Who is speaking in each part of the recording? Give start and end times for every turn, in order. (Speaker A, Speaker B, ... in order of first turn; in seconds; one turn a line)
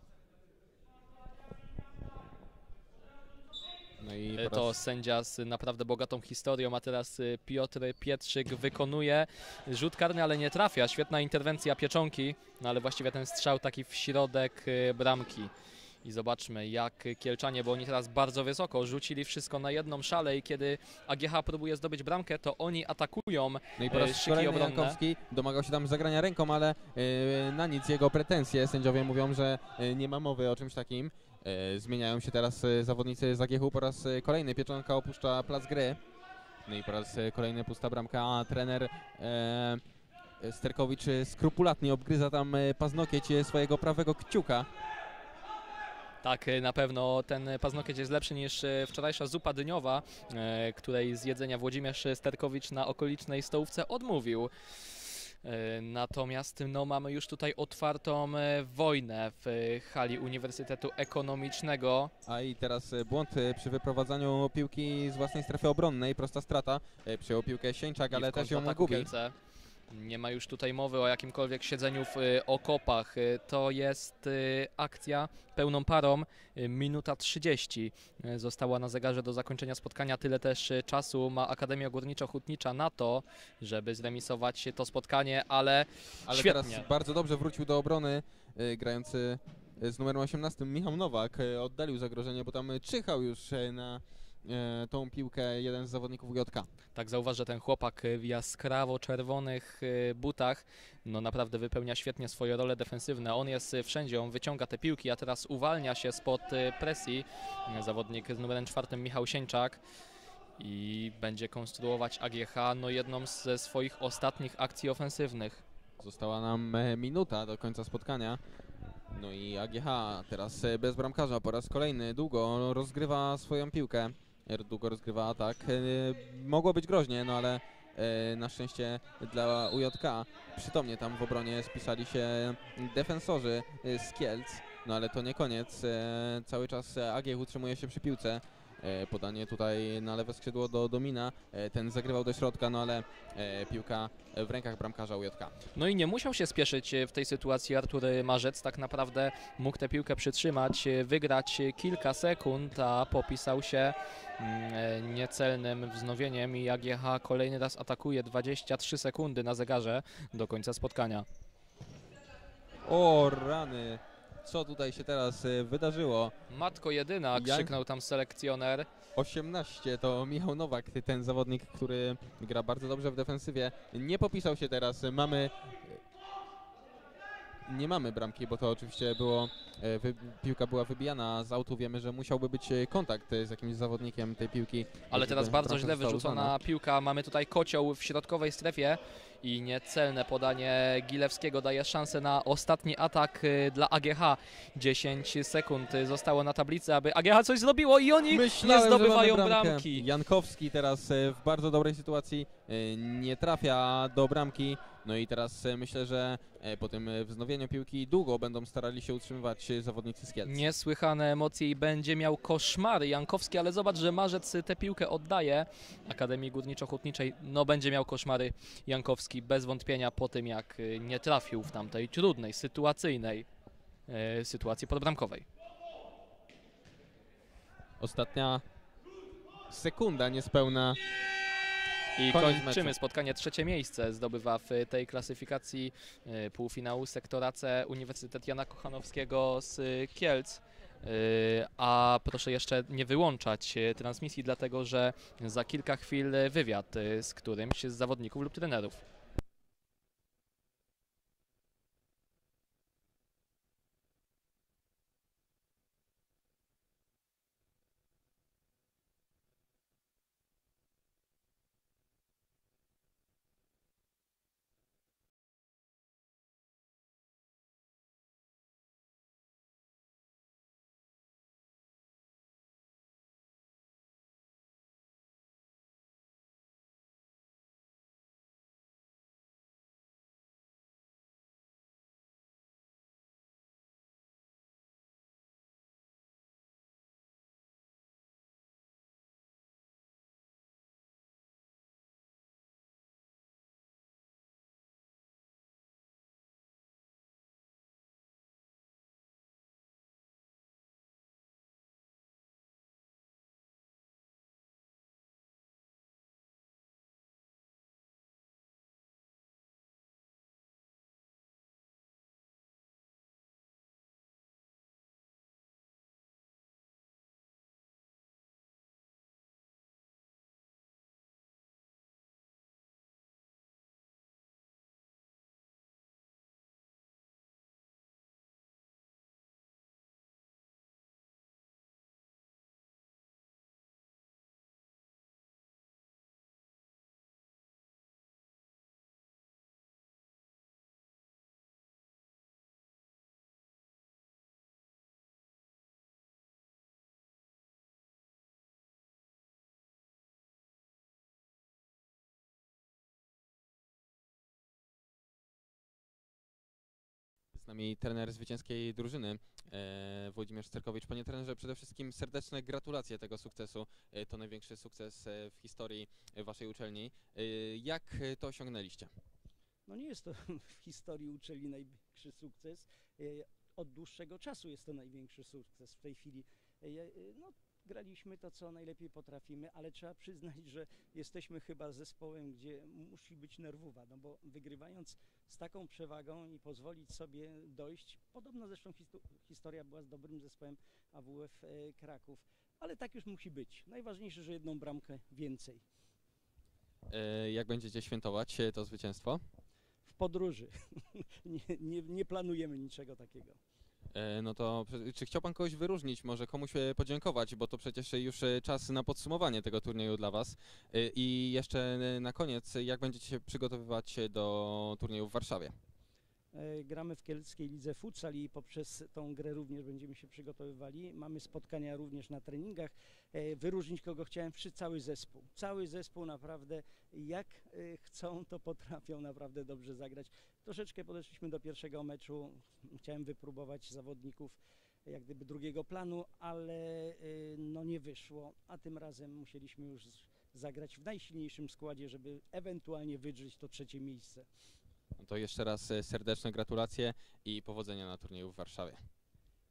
Speaker A: 4.0-4.8
Speaker B: 4.3-15.5
Speaker B: 16.0-25.0
Speaker A: 23.8-36.0
Speaker A: 36.6-39.8
Speaker A: 40.4-44.7
Speaker B: 46.2-62.1
Speaker A: 62.2-69.1
Speaker B: 68.1-69.3
Speaker B: 69.9-86.9
Speaker A: 86.2-96.7
Speaker B: 96.9-109.8
Speaker B: 110.6-115.6
Speaker A: 116.0-118.4
Speaker A: 119.1-145.6
Speaker B: 145.7-161.2
Speaker A: 162.8-166.3
Speaker B: 166.5-168.9
Speaker A: 167.3-167.7
Speaker A: 169.1-176.0
Speaker A: 177.7-186.5
Speaker B: 185.1-200.1
Speaker A: 198.3-210.6
Speaker B: 210.4-223.5
Speaker B: 224.1-225.4
Speaker A: 228.0-228.6
Speaker A: 229.7-231.0
Speaker B: 232.2-249.0
Speaker A: 232.3-232.9
Speaker A: 357.5-369.1
Speaker C: 369.9-395.8
Speaker A: 397.1-399.4
Speaker C: 400.1-403.6
Speaker A: 404.1-415.7
Speaker C: 416.5-444.5
Speaker A: 445.2-449.0